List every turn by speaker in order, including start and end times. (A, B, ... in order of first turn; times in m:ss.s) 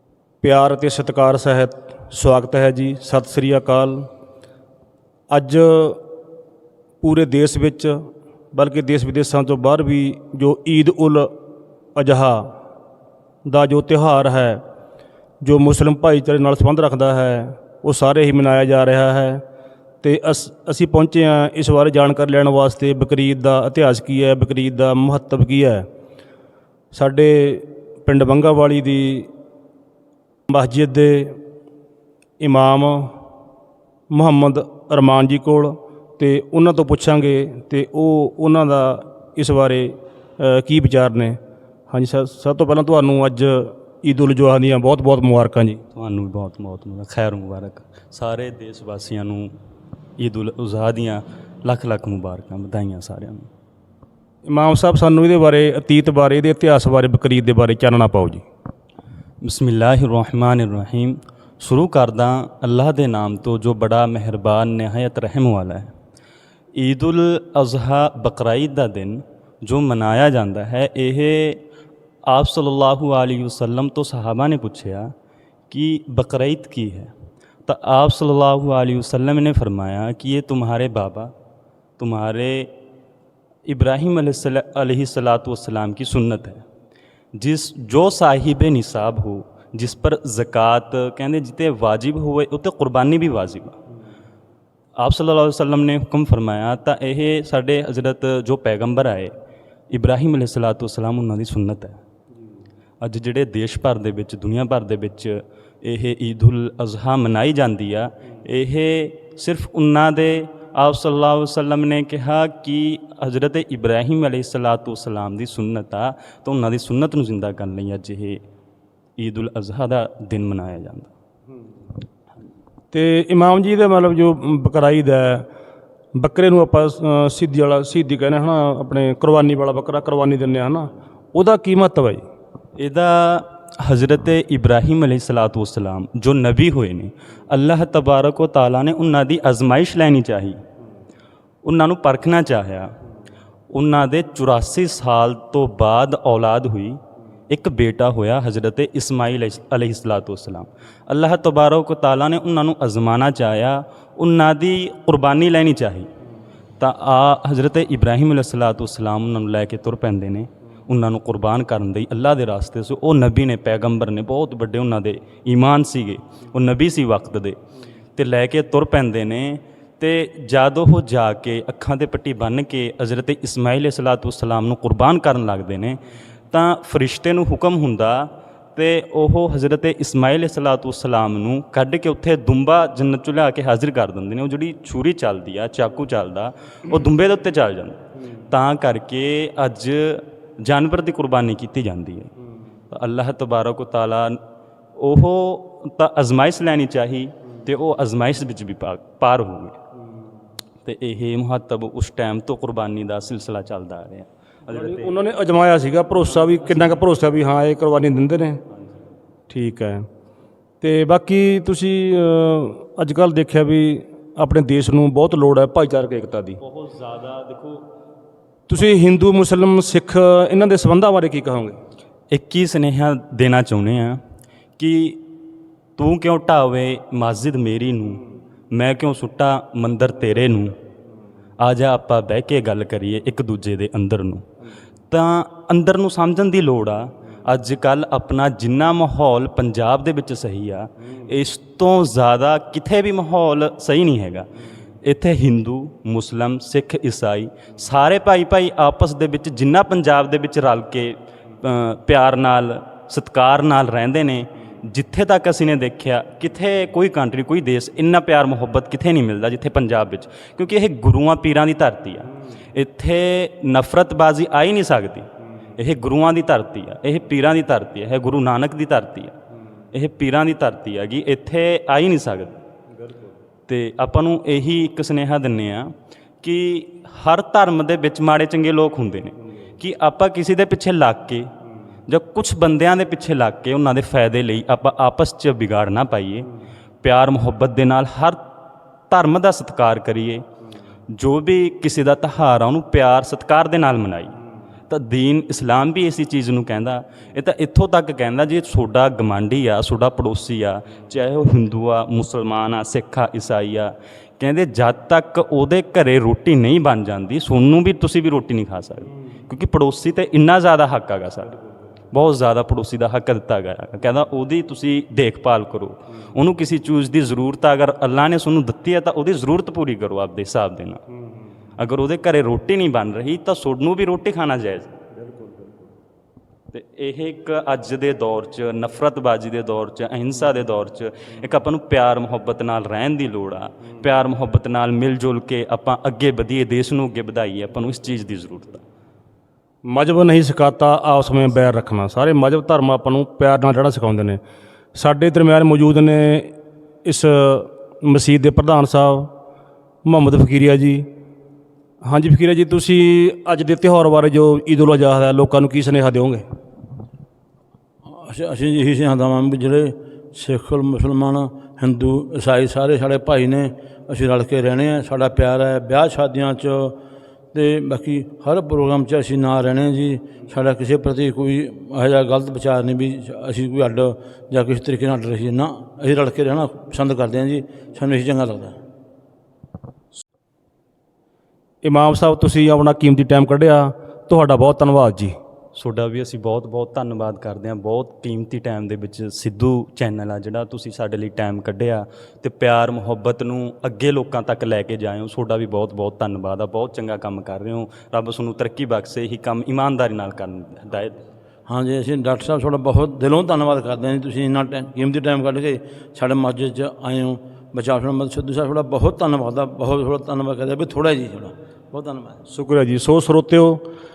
0:00.4-0:04.1 A
0:05.3-0:06.0 A
0:07.0-0:11.3 A
0:12.0-0:12.5 A
0:13.4-0:14.6 A
0:15.4-0:19.4 A
0:20.0-0:25.8 A
0:26.9-0:29.3 A
0:30.5-0:31.4 A
0:32.4-0:33.1 A
0:34.1-0:41.4 A
0:41.9-0:45.8 A
0:45.9-0:49.5 B
0:50.2-0:53.5 B
0:54.5-0:58.4 A
0:59.4-1:05.9 B
1:06.8-1:11.6 B
1:12.3-1:15.1 B
1:15.7-1:17.1 B
1:17.7-1:21.3 B
1:22.0-1:22.7 B
1:23.7-1:26.6 B
1:27.4-1:33.8 B
1:35.0-1:39.3 B
1:39.9-1:42.0 B
1:43.0-1:58.4 B
1:59.2-2:01.1 B
2:02.9-2:05.5 A
2:06.2-2:12.2 A
2:12.8-2:20.6 B
2:21.6-2:22.9 B
2:23.7-2:36.1 B
2:36.8-2:47.6 B
2:48.2-2:56.0 B
2:56.5-3:12.3 B
3:12.9-3:14.4 B
3:15.0-3:19.8 B
3:20.8-3:25.1 B
3:24.7-3:28.6 A
3:26.5-3:26.9 B
3:29.5-3:30.0 A
3:30.8-3:36.6 A
3:36.6-3:37.8 B
3:38.7-3:41.8 A
3:42.3-3:44.2 B
3:44.8-3:45.2 B
3:46.0-3:50.7 B
3:51.6-3:54.4 B
3:55.1-4:04.5 B
4:05.0-4:29.3 B
4:29.9-4:32.6 B
4:33.7-4:35.9 B
4:36.4-4:41.5 B
4:42.1-4:46.5 B
4:47.0-4:48.4 B
4:49.1-4:50.4 B
4:51.1-4:54.4 B
4:54.9-5:11.6 B
5:12.1-5:21.0 B
5:21.8-5:25.0 B
5:26.7-5:38.8 B
5:39.8-5:44.4 A
5:44.9-5:46.5 A
5:47.0-5:49.3 A
5:50.0-5:51.1 A
5:52.0-5:56.4 A
5:58.1-6:07.0 C
6:07.5-6:18.8 C
6:21.8-6:25.3 A
6:25.7-6:41.2 B
6:41.7-6:52.4 C
6:52.5-6:53.8 A